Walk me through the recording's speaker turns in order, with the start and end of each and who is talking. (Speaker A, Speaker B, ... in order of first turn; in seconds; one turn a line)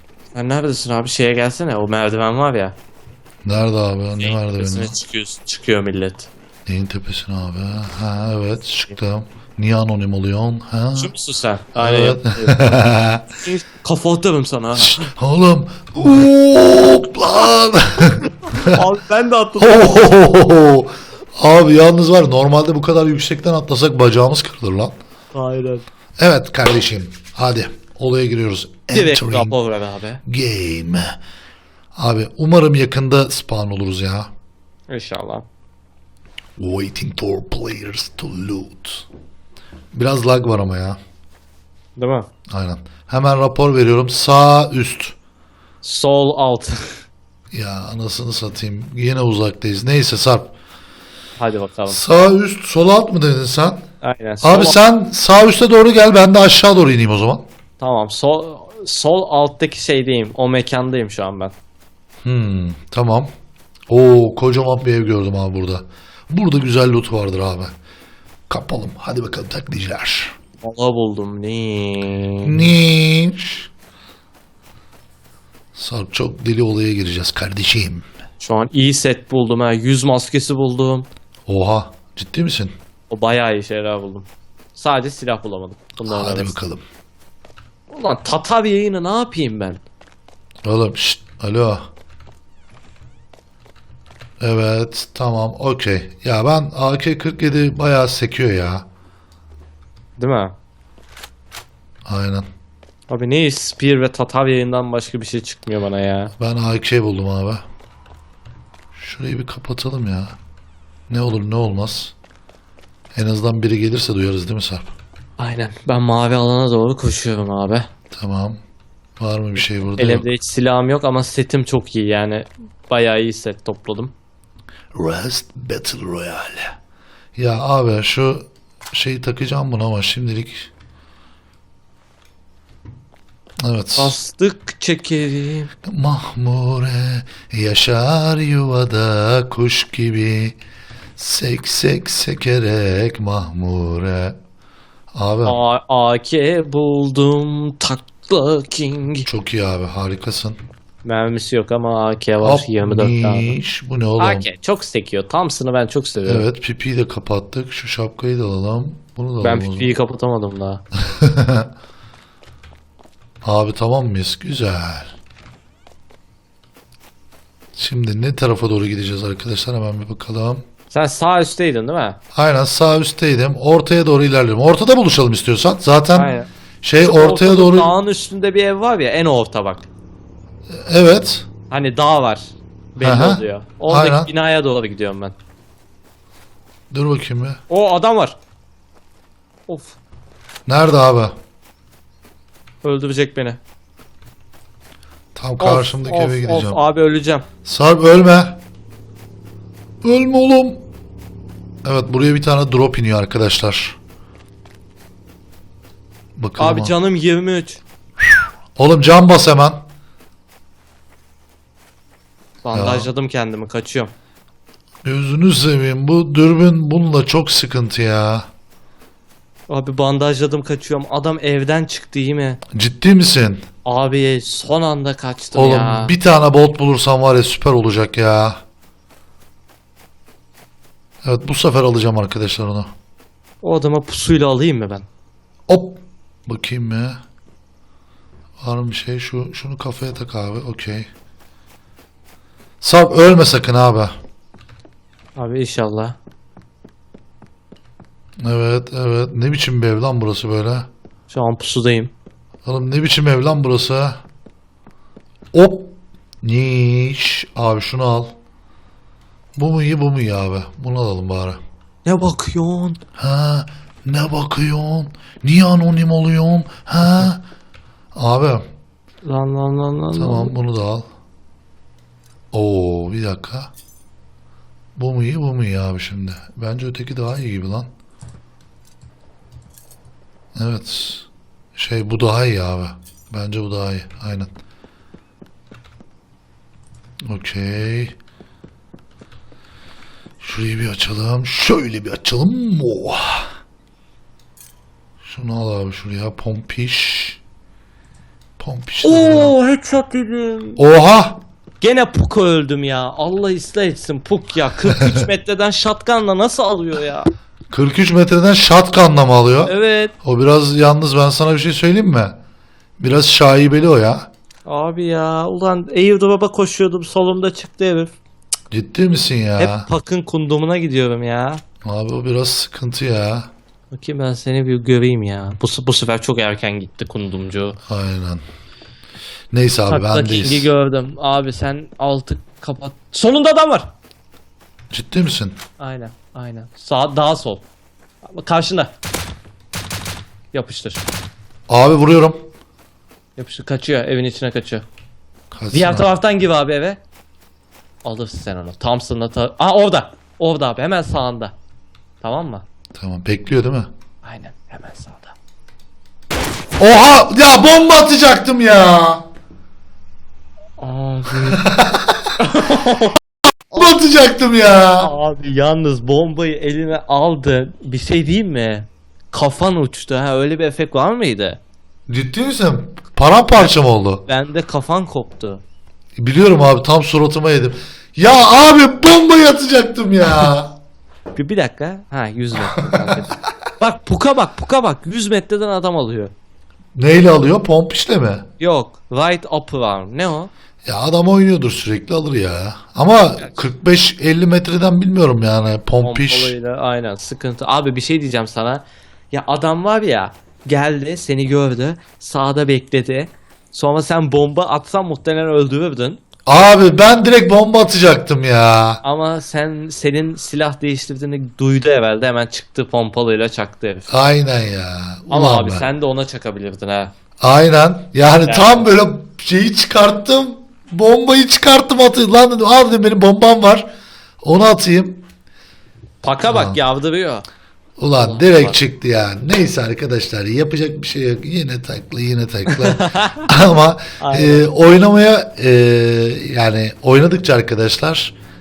Speaker A: 0.3-2.8
Speaker B: 3.5-4.9
Speaker A: 4.2-6.3
Speaker B: 6.7-11.1
Speaker A: 11.0-12.8
Speaker B: 11.8-13.2
Speaker A: 13.4-15.1
Speaker B: 14.8-18.8
Speaker A: 18.5-20.1
Speaker B: 19.6-24.9
Speaker A: 25.3-25.9
Speaker B: 26.2-29.6
Speaker A: 28.9-30.2
Speaker B: 30.3-31.2
Speaker B: 31.9-34.3
Speaker A: 34.9-35.5
Speaker B: 36.6-39.1
Speaker B: 39.9-41.0
Speaker A: 42.0-42.3
Speaker B: 42.5-45.2
Speaker A: 45.8-46.9
Speaker B: 47.5-50.5
Speaker A: 51.4-52.0
Speaker B: 51.9-53.8
Speaker A: 54.0-54.8
Speaker B: 54.4-57.4
Speaker A: 57.8-61.5
Speaker B: 62.2-63.3
Speaker B: 63.9-67.8
Speaker B: 68.5-70.4
Speaker A: 70.6-72.7
Speaker B: 72.4-73.7
Speaker B: 75.8-78.1
Speaker A: 78.4-81.1
Speaker B: 81.5-82.7
Speaker A: 83.1-86.6
Speaker B: 86.0-86.8
Speaker A: 87.9-89.8
Speaker B: 90.7-91.8
Speaker B: 94.4-98.8
Speaker A: 100.2-100.5
Speaker B: 102.1-102.5
Speaker A: 103.1-106.3
Speaker B: 106.4-107.6
Speaker B: 109.0-110.4
Speaker B: 111.1-112.1
Speaker B: 113.1-114.9
Speaker A: 115.4-117.9
Speaker B: 118.1-118.6
Speaker B: 119.2-120.3
Speaker A: 120.0-124.1
Speaker B: 124.9-126.7
Speaker B: 127.4-130.7
Speaker B: 133.6-134.2
Speaker A: 134.0-135.7
Speaker B: 135.8-140.6
Speaker B: 141.2-144.4
Speaker B: 145.1-145.6
Speaker A: 145.5-149.3
Speaker B: 149.3-150.6
Speaker A: 151.0-153.6
Speaker B: 152.4-154.5
Speaker A: 154.2-156.5
Speaker B: 156.2-160.0
Speaker A: 159.4-160.8
Speaker B: 161.1-161.7
Speaker B: 163.4-165.1
Speaker B: 167.8-170.6
Speaker A: 170.9-172.2
Speaker B: 172.3-177.9
Speaker A: 176.2-176.5
Speaker A: 177.0-179.9
Speaker B: 180.7-181.5
Speaker A: 181.7-185.3
Speaker B: 183.0-184.3
Speaker B: 186.9-187.6
Speaker A: 187.7-188.4
Speaker A: 189.7-190.0
Speaker B: 190.7-191.3
Speaker A: 192.8-193.6
Speaker B: 195.3-196.8
Speaker A: 195.6-197.4
Speaker B: 197.7-198.6
Speaker B: 200.0-200.8
Speaker B: 201.8-204.0
Speaker B: 206.4-206.9
Speaker A: 206.6-207.8
Speaker B: 208.8-209.8
Speaker A: 212.6-214.1
Speaker B: 212.7-213.1
Speaker B: 215.0-218.5
Speaker A: 219.7-222.6
Speaker B: 222.7-223.7
Speaker A: 223.8-226.1
Speaker B: 225.5-228.6
Speaker B: 231.2-232.9
Speaker A: 233.6-235.1
Speaker B: 235.7-237.2
Speaker B: 238.6-241.1
Speaker B: 242.8-244.1
Speaker A: 245.4-246.2
Speaker B: 248.4-250.9
Speaker A: 251.3-252.1
Speaker B: 252.7-254.2
Speaker B: 255.5-258.3
Speaker B: 259.6-261.6
Speaker A: 262.1-263.0
Speaker B: 263.2-267.4
Speaker B: 268.1-268.6
Speaker A: 269.2-270.5
Speaker B: 270.1-271.1
Speaker B: 272.5-273.7
Speaker B: 275.0-277.9
Speaker B: 280.6-284.5
Speaker B: 287.3-288.2
Speaker B: 290.4-293.5
Speaker B: 295.2-297.4
Speaker B: 298.6-299.6
Speaker A: 299.0-300.8
Speaker B: 300.8-301.4
Speaker A: 301.8-307.3
Speaker B: 307.7-312.4
Speaker A: 309.7-310.1
Speaker B: 313.0-314.3
Speaker A: 314.7-318.1
Speaker B: 318.7-319.9
Speaker A: 319.6-321.6
Speaker B: 321.8-323.5
Speaker A: 323.9-327.8
Speaker B: 327.9-328.4
Speaker B: 329.5-330.7
Speaker A: 329.9-333.9
Speaker B: 334.9-335.6
Speaker A: 335.8-337.6
Speaker A: 338.2-338.9
Speaker A: 340.5-341.1
Speaker B: 341.7-342.4
Speaker A: 343.4-344.8
Speaker B: 345.5-346.1
Speaker A: 345.7-347.0
Speaker A: 348.0-351.5
Speaker A: 352.2-352.6
Speaker B: 352.9-353.9
Speaker A: 354.2-355.4
Speaker B: 356.8-359.3
Speaker A: 360.8-361.6
Speaker B: 361.5-362.3
Speaker A: 362.4-363.2
Speaker B: 363.7-365.1
Speaker A: 365.0-371.6
Speaker B: 372.1-374.2
Speaker A: 374.3-375.6
Speaker B: 376.2-380.8
Speaker A: 381.3-386.3
Speaker B: 382.9-383.2
Speaker B: 386.9-388.5
Speaker A: 388.6-390.5
Speaker B: 390.9-396.6
Speaker A: 396.0-406.2
Speaker B: 406.5-409.0
Speaker A: 409.0-414.1
Speaker B: 414.1-415.9
Speaker A: 415.3-417.1
Speaker B: 417.4-423.9
Speaker A: 418.4-418.9
Speaker B: 424.4-425.2
Speaker A: 426.2-427.5
Speaker B: 426.4-426.8
Speaker B: 428.0-438.4
Speaker A: 428.2-428.8
Speaker A: 432.7-433.5
Speaker A: 434.2-434.7